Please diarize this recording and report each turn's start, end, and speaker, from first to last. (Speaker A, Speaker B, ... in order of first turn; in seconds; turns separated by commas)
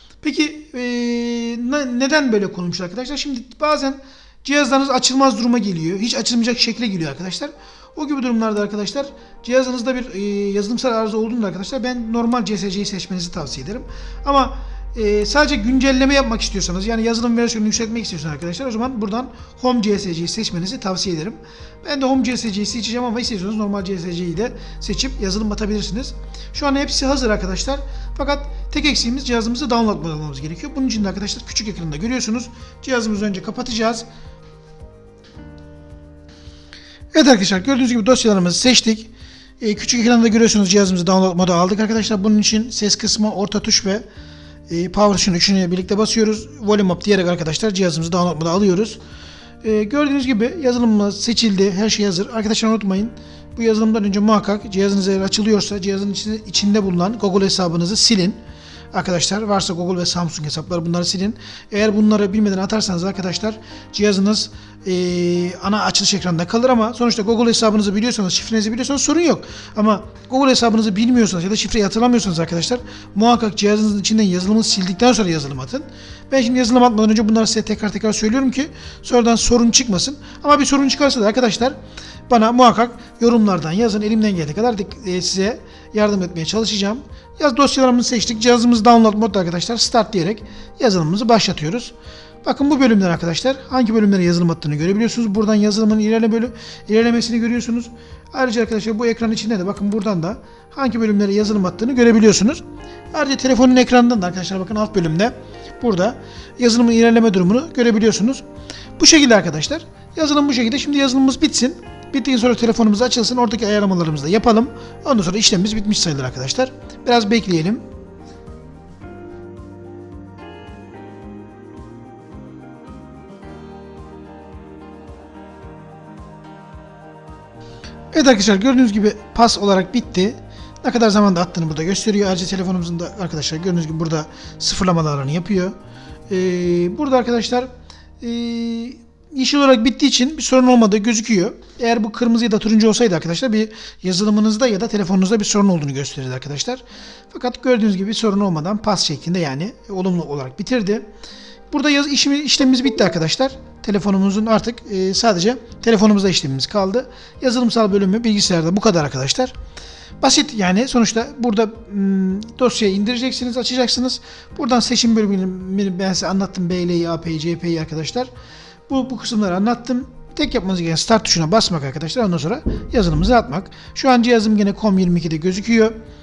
Speaker A: 0.2-34.0, Speaker A: 37.1-44.0, Speaker A: 44.7-49.0, Speaker A: 49.6-58.4, Speaker A: 58.9-108.4, Speaker A: 109.0-117.8, Speaker A: 128.1-135.8, Speaker A: 136.3-151.1, Speaker A: 151.7-159.5, Speaker A: 160.2-168.3, Speaker A: 168.9-176.0